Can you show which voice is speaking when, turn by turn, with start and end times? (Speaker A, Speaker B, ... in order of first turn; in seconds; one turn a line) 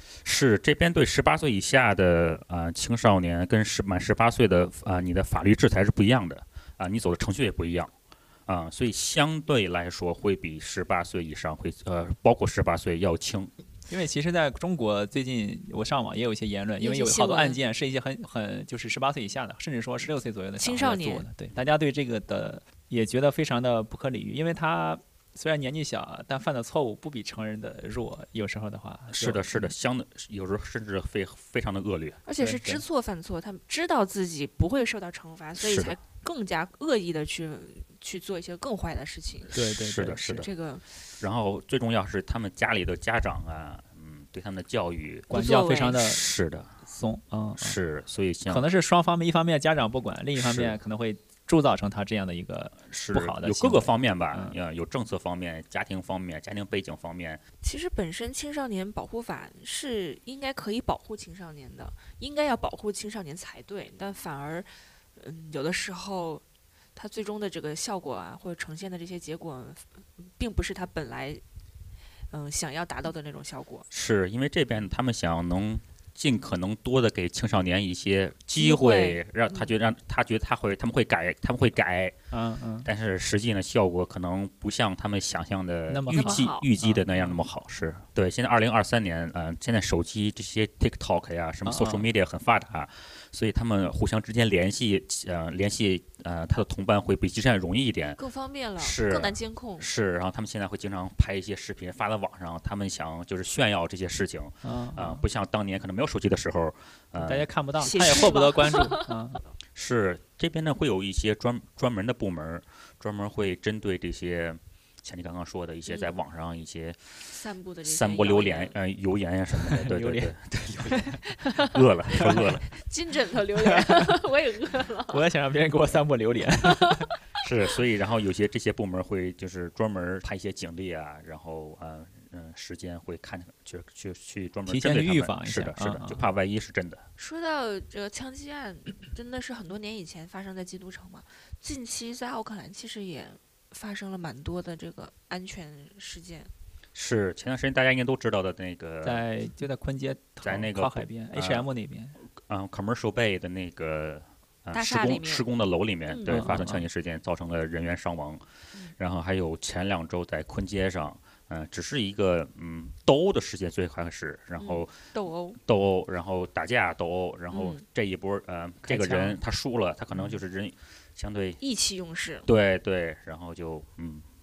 Speaker A: 0.2-7.9
Speaker A: 8.5-13.5
Speaker B: 13.9-29.7
Speaker C: 16.8-17.6
Speaker C: 20.6-21.2
Speaker A: 29.1-32.2
Speaker C: 32.3-39.5
Speaker B: 32.4-32.8
Speaker A: 35.6-36.0
Speaker B: 39.5-40.3
Speaker A: 39.6-40.5
Speaker C: 40.2-41.0
Speaker A: 41.2-45.4
Speaker C: 45.3-46.0
Speaker B: 45.3-46.2
Speaker A: 45.9-46.7
Speaker B: 46.8-47.8
Speaker A: 47.6-48.7
Speaker B: 48.5-54.6
Speaker A: 50.4-50.8
Speaker A: 52.9-57.4
Speaker C: 57.6-66.4
Speaker C: 67.0-71.4
Speaker C: 72.3-73.9
Speaker A: 73.9-82.2
Speaker C: 78.6-79.7
Speaker B: 82.3-82.9
Speaker A: 82.8-98.2
Speaker B: 85.9-87.3
Speaker C: 86.1-86.7
Speaker B: 91.7-92.1
Speaker C: 98.2-99.9
Speaker A: 98.8-107.5
Speaker B: 104.6-105.2
Speaker B: 107.2-109.4
Speaker C: 107.8-109.2
Speaker A: 109.8-117.2
Speaker C: 115.9-116.2
Speaker C: 117.2-118.8
Speaker A: 117.8-122.7
Speaker B: 119.6-121.2
Speaker C: 121.3-125.3
Speaker B: 123.6-124.1
Speaker B: 125.1-127.1
Speaker C: 126.6-127.1
Speaker A: 127.4-137.1
Speaker B: 134.7-136.2
Speaker C: 137.2-146.5
Speaker A: 146.9-149.2
Speaker B: 149.0-152.2
Speaker A: 150.4-151.7
Speaker A: 152.4-158.4
Speaker C: 154.7-155.5
Speaker C: 156.1-156.5
Speaker B: 156.3-156.8
Speaker A: 159.0-164.9
Speaker C: 164.6-165.6
Speaker A: 165.7-171.6
Speaker C: 167.5-167.8
Speaker B: 168.9-169.4
Speaker C: 171.6-172.5
Speaker A: 172.5-174.2